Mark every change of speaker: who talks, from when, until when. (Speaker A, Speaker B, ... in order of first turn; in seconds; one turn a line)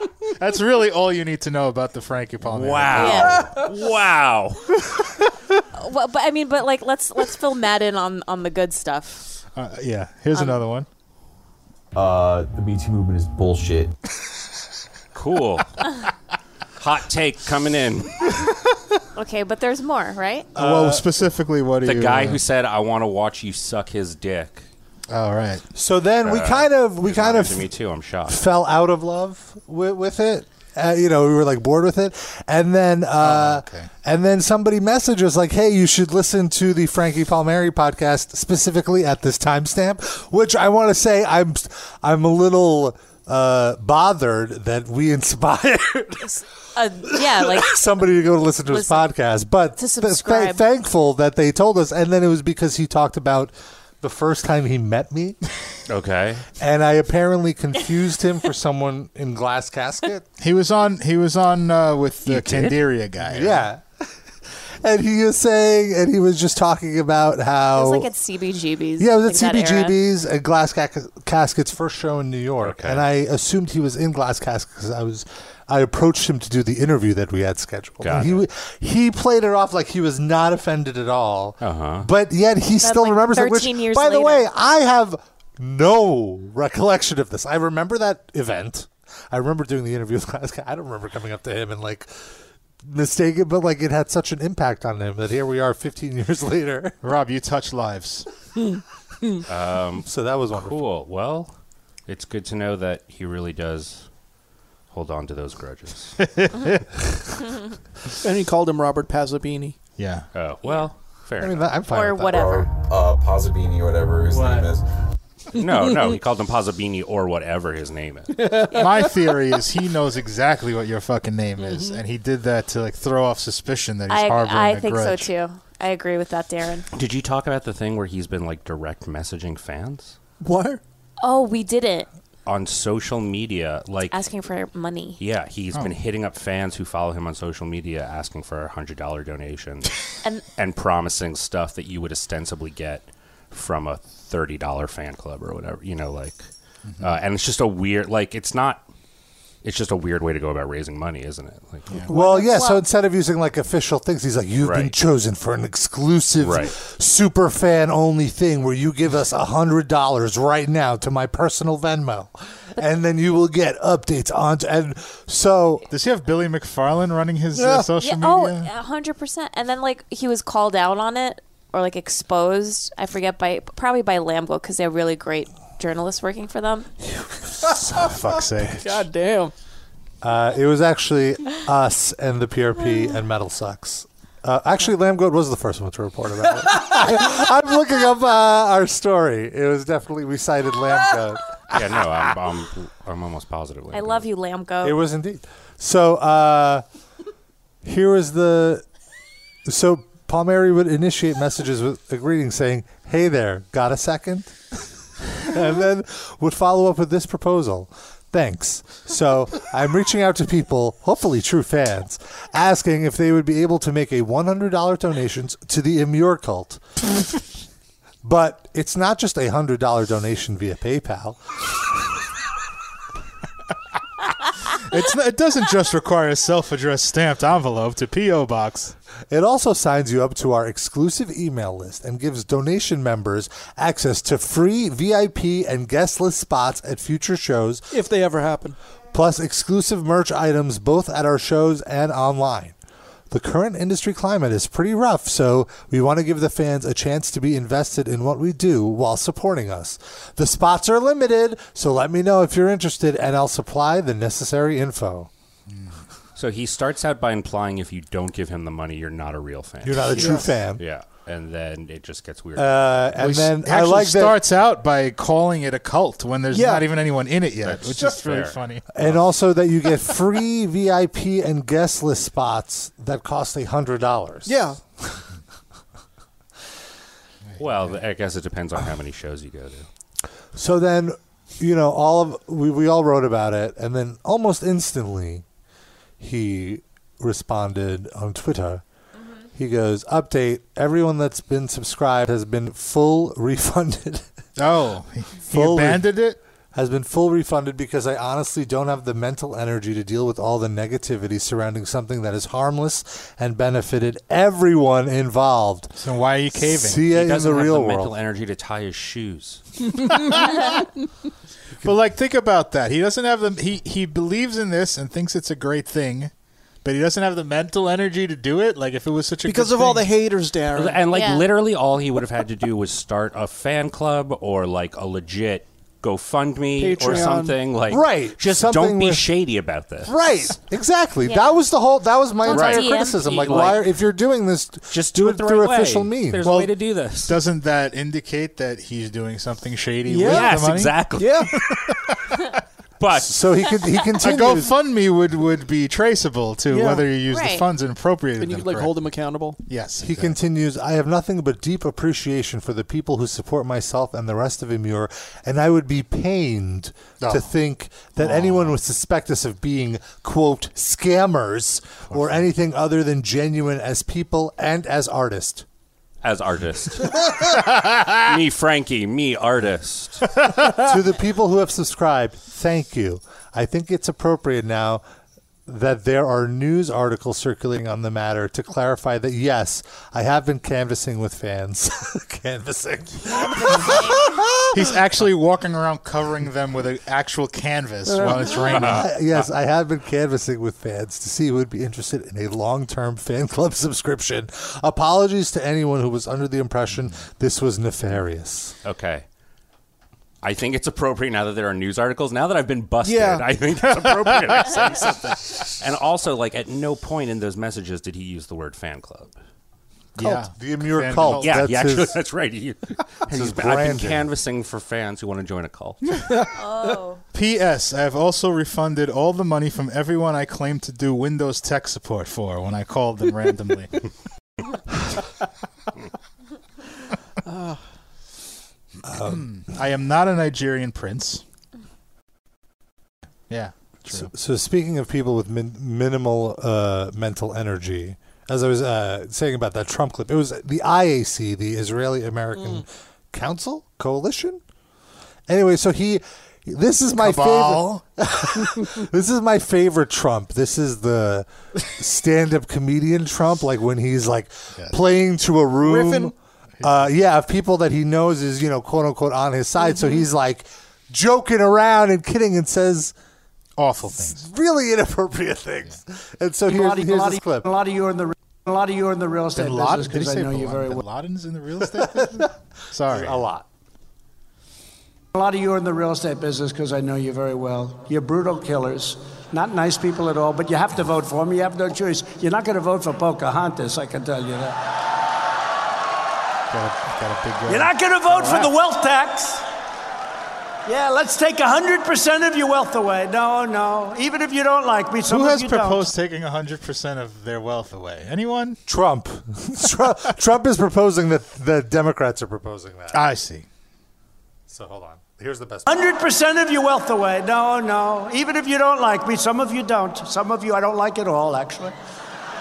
Speaker A: 0.4-3.5
Speaker B: 2.5-4.8
Speaker C: 2.9-3.4
Speaker D: 3.3-3.7
Speaker C: 5.8-9.3
Speaker A: 9.6-10.9
Speaker E: 11.9-13.9
Speaker B: 15.1-15.8
Speaker B: 16.8-18.4
Speaker C: 19.1-20.5
Speaker A: 20.6-22.4
Speaker F: 20.6-21.1
Speaker B: 21.8-24.7
Speaker A: 25.1-25.7
Speaker F: 25.8-27.7
Speaker B: 26.2-28.4
Speaker F: 28.3-46.4
Speaker A: 33.2-33.9
Speaker C: 46.2-47.8
Speaker F: 47.0-55.4
Speaker C: 48.7-49.1
Speaker C: 49.8-50.6
Speaker B: 55.9-56.5
Speaker F: 56.6-60.2
Speaker A: 60.4-63.6
Speaker B: 62.3-62.8
Speaker F: 63.2-68.1
Speaker C: 67.7-70.0
Speaker F: 69.0-92.2
Speaker B: 72.6-73.0
Speaker B: 78.0-78.4
Speaker B: 81.6-82.1
Speaker C: 82.8-84.5
Speaker F: 92.8-97.0
Speaker A: 97.0-98.3
Speaker B: 99.5-101.5
Speaker F: 100.1-100.8
Speaker B: 102.1-104.1
Speaker B: 104.9-106.2
Speaker A: 106.2-106.8
Speaker D: 108.2-109.8
Speaker A: 110.0-110.3
Speaker B: 110.3-111.7
Speaker F: 111.4-112.5
Speaker C: 111.9-112.7
Speaker E: 112.3-114.8
Speaker D: 114.3-114.7
Speaker B: 115.5-118.7
Speaker D: 115.6-116.2
Speaker D: 118.3-119.4
Speaker A: 118.7-125.3
Speaker D: 121.6-122.0
Speaker C: 124.1-126.9
Speaker B: 126.9-130.2
Speaker D: 130.4-130.8
Speaker C: 131.2-132.1
Speaker B: 132.5-134.2
Speaker C: 134.1-135.2
Speaker B: 135.2-139.9
Speaker B: 140.6-146.5
Speaker A: 146.9-147.1
Speaker B: 147.0-148.8
Speaker B: 149.6-151.9
Speaker C: 152.1-152.8
Speaker F: 152.1-165.9
Speaker B: 154.6-154.9
Speaker B: 156.4-156.7
Speaker A: 165.9-168.7
Speaker D: 167.6-167.9
Speaker C: 168.0-176.9
Speaker A: 177.9-179.0
Speaker D: 177.9-179.5
Speaker F: 180.2-191.5
Speaker B: 191.7-194.2
Speaker C: 193.9-195.0
Speaker F: 194.8-196.8
Speaker F: 197.8-198.8
Speaker F: 199.7-204.6
Speaker F: 205.4-216.8
Speaker F: 218.2-221.4
Speaker A: 224.7-228.9
Speaker F: 229.3-237.9
Speaker D: 237.9-238.8
Speaker F: 239.1-242.8
Speaker F: 243.3-255.3
Speaker A: 255.7-256.0
Speaker B: 256.4-263.2
Speaker F: 259.8-260.8
Speaker D: 260.2-260.5
Speaker F: 262.6-264.4
Speaker A: 263.2-268.9
Speaker D: 266.5-266.9
Speaker B: 267.6-268.6
Speaker F: 268.9-275.2
Speaker D: 274.5-274.8
Speaker B: 277.6-279.9
Speaker F: 280.6-285.4
Speaker F: 286.2-288.8
Speaker F: 289.6-294.3
Speaker A: 294.6-296.4
Speaker F: 295.5-296.1
Speaker F: 296.7-306.0
Speaker A: 306.0-307.1
Speaker F: 306.5-308.1
Speaker B: 307.1-309.8
Speaker D: 310.1-310.4
Speaker A: 311.8-316.3
Speaker A: 316.8-320.1
Speaker D: 319.4-321.1
Speaker B: 320.8-330.1
Speaker C: 321.1-321.4
Speaker D: 326.8-327.6
Speaker F: 327.9-329.3
Speaker F: 330.1-336.5
Speaker C: 331.2-331.6
Speaker C: 332.4-333.8
Speaker B: 332.5-333.9
Speaker B: 334.9-337.4
Speaker A: 336.4-342.4
Speaker D: 340.1-341.6
Speaker B: 340.2-341.5
Speaker B: 343.0-343.4
Speaker F: 343.1-344.7
Speaker A: 344.2-349.0
Speaker D: 346.7-347.1
Speaker C: 347.3-347.7
Speaker D: 348.4-349.6
Speaker A: 349.7-350.4
Speaker F: 350.0-365.7
Speaker A: 357.2-357.5
Speaker A: 358.2-358.7
Speaker A: 362.1-362.4
Speaker B: 366.2-370.3
Speaker F: 370.8-375.0
Speaker F: 375.7-385.0
Speaker C: 383.7-384.2
Speaker A: 384.7-389.1
Speaker D: 388.1-388.8
Speaker B: 388.7-389.0
Speaker F: 388.8-398.8
Speaker B: 398.8-399.2
Speaker B: 400.4-409.3
Speaker D: 403.0-403.5
Speaker A: 404.0-405.1
Speaker A: 410.2-411.7
Speaker F: 410.2-412.2
Speaker B: 411.4-416.2
Speaker F: 413.3-414.3
Speaker D: 416.3-417.0
Speaker C: 416.6-417.2
Speaker A: 417.3-424.0
Speaker D: 427.4-427.8
Speaker F: 429.1-429.4
Speaker A: 429.1-431.4
Speaker A: 433.5-434.3
Speaker F: 434.1-444.6
Speaker D: 442.6-442.8
Speaker F: 445.5-463.1
Speaker A: 447.2-448.0
Speaker D: 455.9-456.3
Speaker A: 456.8-457.1
Speaker A: 463.8-464.5
Speaker F: 464.2-467.7
Speaker G: 466.7-471.0
Speaker A: 469.6-473.4
Speaker F: 472.0-472.5
Speaker F: 473.1-473.7
Speaker G: 475.3-484.8
Speaker A: 486.7-488.7
Speaker G: 487.7-489.6
Speaker G: 490.9-496.1
Speaker A: 495.3-498.8
Speaker F: 498.9-503.2
Speaker A: 503.1-503.7
Speaker F: 504.7-506.1
Speaker G: 505.9-511.9